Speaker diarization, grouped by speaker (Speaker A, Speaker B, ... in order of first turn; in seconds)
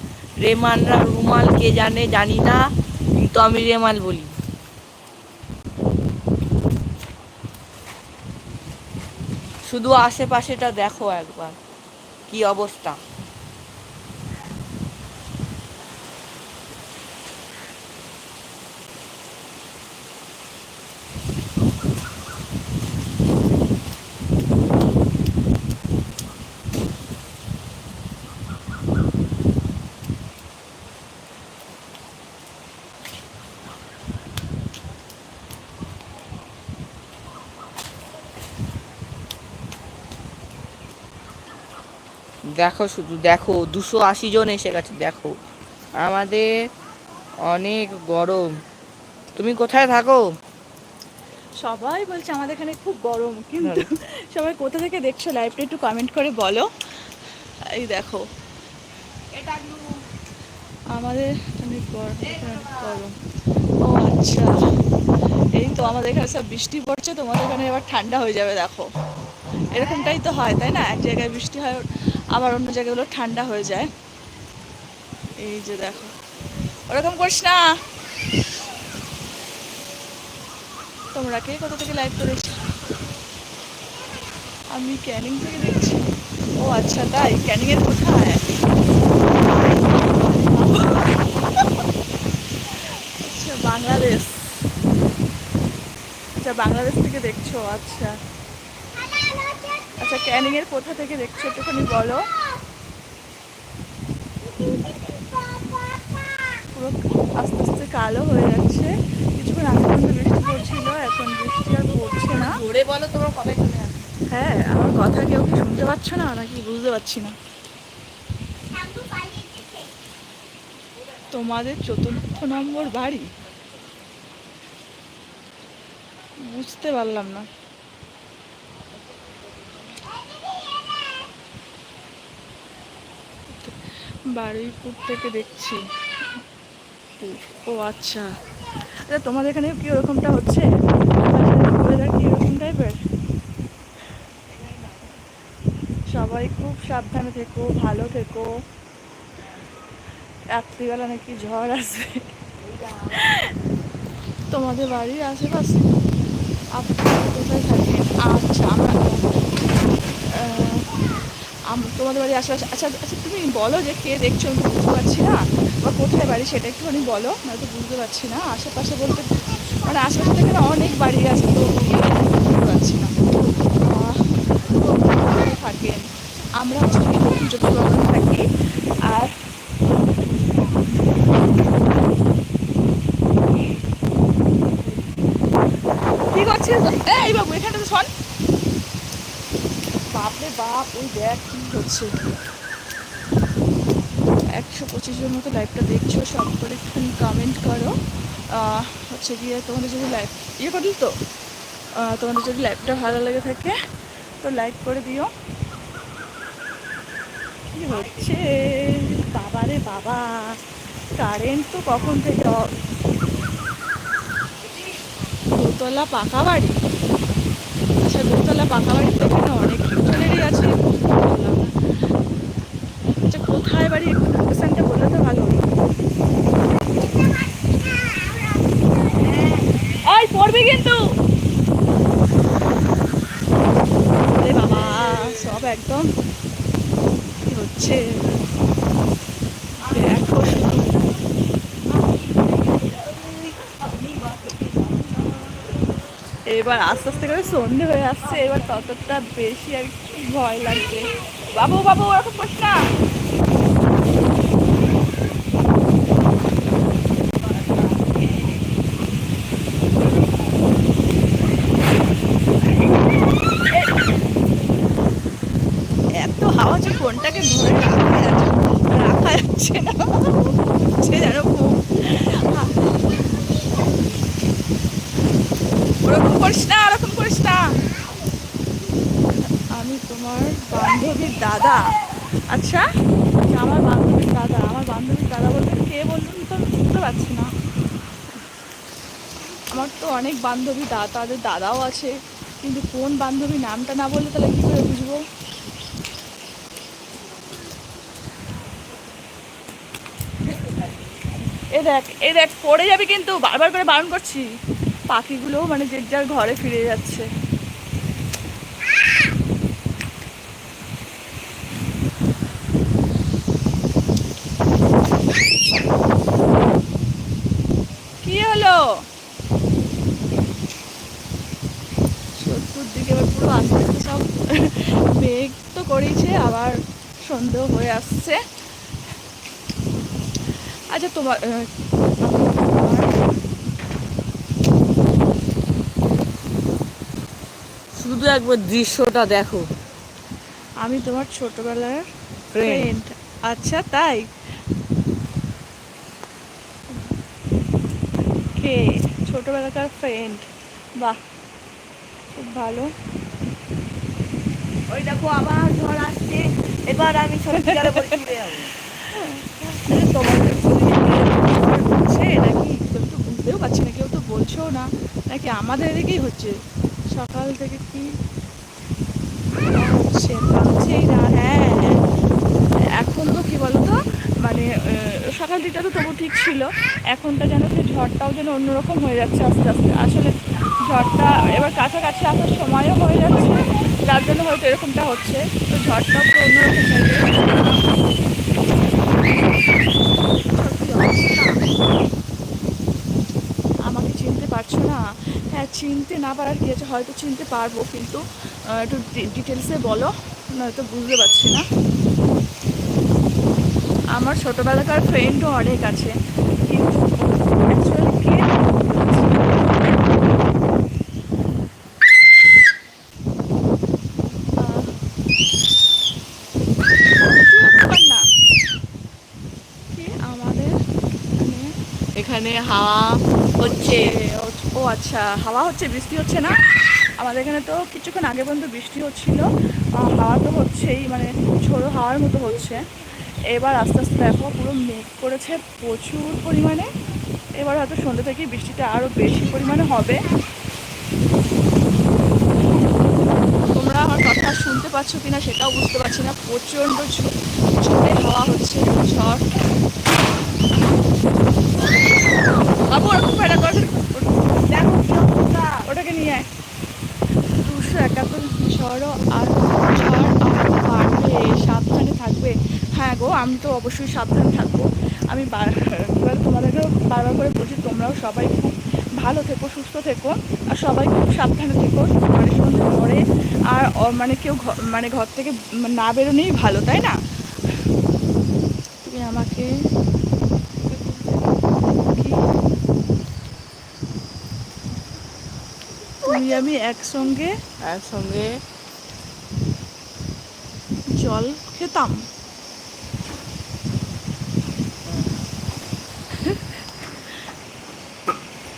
Speaker A: 0.4-2.6, 3.1-4.3, 9.7-11.6, 12.3-13.0, 42.6-45.3, 46.0-46.5, 47.5-48.5, 49.4-50.2, 53.6-53.9, 112.3-114.0, 338.0-339.6, 342.5-342.9, 354.9-358.7, 422.2-424.1, 454.7-455.8, 487.8-488.5, 495.1-495.4
Speaker B: 51.6-56.7, 57.8-58.2, 60.9-63.1, 63.8-64.5, 65.5-68.9, 69.7-73.9, 75.4-76.1, 76.9-77.6, 81.1-82.6, 84.7-86.0, 86.6-88.5, 89.6-91.0, 93.2-94.5, 96.4-98.1, 100.0-102.2, 106.7-112.6, 114.3-117.3, 121.3-123.3, 126.4-127.5, 133.5-135.8, 137.2-138.3, 139.1-140.7, 141.2-143.0, 146.1-148.5, 150.6-152.3, 152.9-153.5, 154.5-155.9, 156.7-159.2, 160.3-161.0, 161.7-169.3, 169.8-173.1, 173.8-174.2, 174.7-176.0, 176.6-178.5, 179.1-179.3, 186.3-188.1, 190.1-192.1, 194.5-197.9, 198.5-201.1, 202.0-203.7, 204.4-205.3, 207.8-210.5, 211.2-212.7, 215.5-216.8, 218.0-221.7, 223.3-225.6, 229.6-231.0, 234.3-236.1, 237.4-238.1, 239.8-241.0, 246.5-252.8, 263.6-263.9, 266.2-273.2, 276.0-277.7, 279.7-281.8, 282.5-282.8, 283.5-287.5, 289.7-295.2, 301.7-304.4, 305.1-307.3, 318.2-318.9, 322.4-328.4, 330.9-331.6, 332.2-333.1, 340.8-342.0, 342.6-344.3, 348.6-350.4, 352.4-352.9, 357.6-358.2, 359.1-366.6, 367.1-368.1, 369.7-372.0, 373.0-380.3, 380.9-387.8, 388.9-391.5, 393.9-395.0, 395.5-401.6, 404.1-406.1, 406.6-409.6, 414.6-414.9, 417.2-418.2, 419.9-420.7, 421.4-421.7, 423.6-426.5, 427.2-429.4, 430.0-432.9, 433.5-436.9, 437.6-440.2, 443.7-449.4, 452.9-454.3, 455.9-456.5, 457.6-477.1, 479.0-479.7, 482.1-482.4, 486.2-487.5, 491.2-492.2, 496.4-497.1